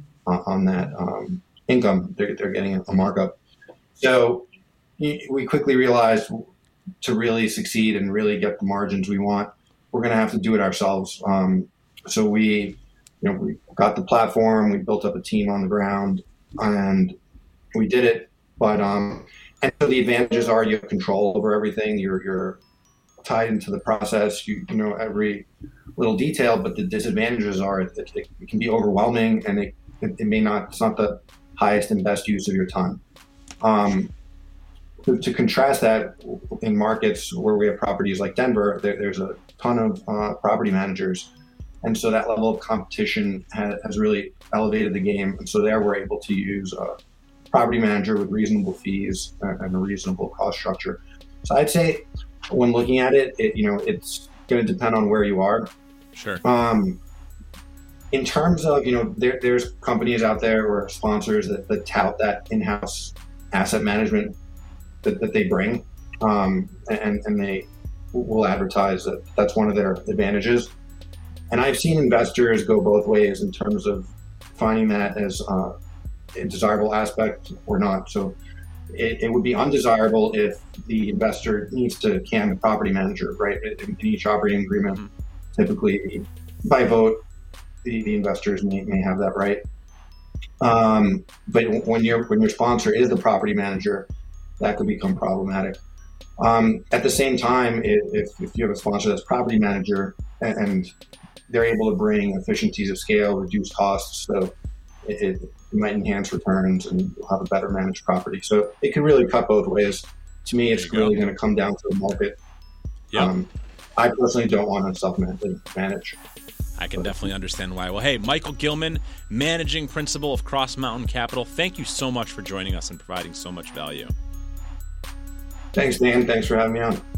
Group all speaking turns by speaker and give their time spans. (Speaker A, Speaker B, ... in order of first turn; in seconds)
Speaker A: 0.3-3.4, 4.0-4.5, 5.0-6.5, 7.0-17.1, 17.8-22.6, 23.2-33.0, 33.6-34.1, 35.0-41.3, 41.8-47.0, 47.5-55.7, 56.4-57.0, 58.1-64.3, 65.0-70.7, 71.5-75.8, 76.3-78.4, 78.9-87.2, 87.8-89.6, 90.6-94.1, 94.6-95.8, 96.4-100.9, 101.5-112.4, 113.2-116.2, 125.8-127.0
Speaker B: 56.1-56.4, 110.7-111.2, 116.8-124.1